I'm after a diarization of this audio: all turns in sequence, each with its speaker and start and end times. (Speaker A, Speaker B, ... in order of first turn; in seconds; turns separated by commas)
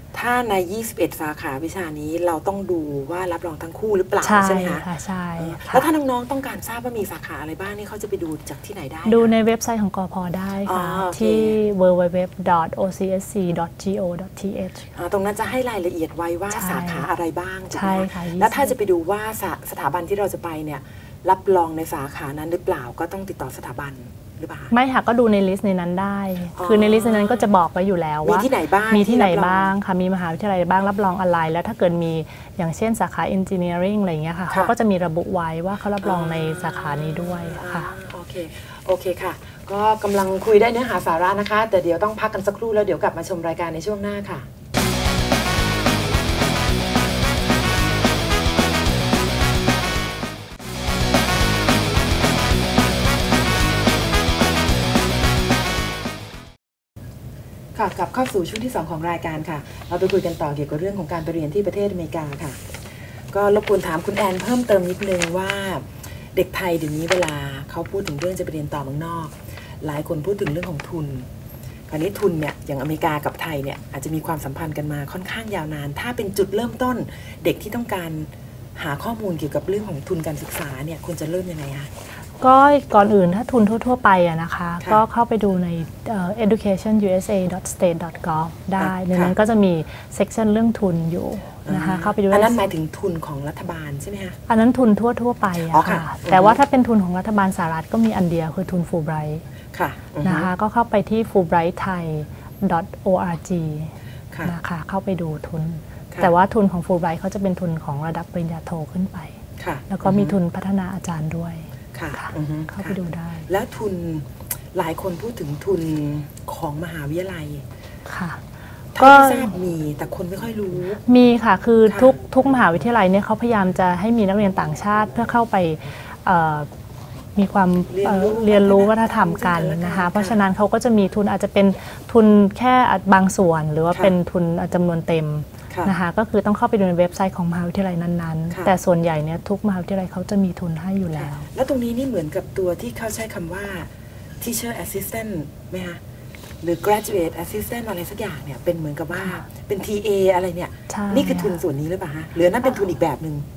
Speaker A: 0.1-4.8, Speaker B: 4.2-5.9, Speaker A: 5.4-9.3, Speaker B: 9.1-14.9, Speaker A: 10.7-11.6, Speaker A: 14.9-24.7, Speaker B: 16.5-17.1, Speaker B: 17.7-18.7, Speaker B: 24.7-37.9, Speaker A: 26.6-27.5, Speaker A: 28.2-29.7, Speaker A: 36.0-44.5, Speaker A: 57.7-62.8, Speaker A: 63.3-71.3, Speaker A: 71.9-81.9, Speaker B: 82.4-92.6, Speaker A: 88.8-89.3, Speaker A: 91.7-94.4, Speaker B: 94.5-99.4, Speaker A: 95.7-96.6, Speaker A: 99.7-100.5, Speaker B: 100.2-103.9, Speaker B: 104.4-113.5, Speaker A: 109.6-110.3, Speaker A: 111.9-113.0, Speaker A: 113.5-117.6, Speaker B: 118.1-118.4, Speaker A: 118.9-121.0, Speaker B: 119.0-119.5, Speaker B: 121.1-126.7, Speaker A: 121.9-122.2, Speaker B: 127.3-141.5, Speaker A: 127.9-130.4, Speaker A: 141.2-146.0, Speaker A: 146.6-153.4, Speaker B: 150.9-151.6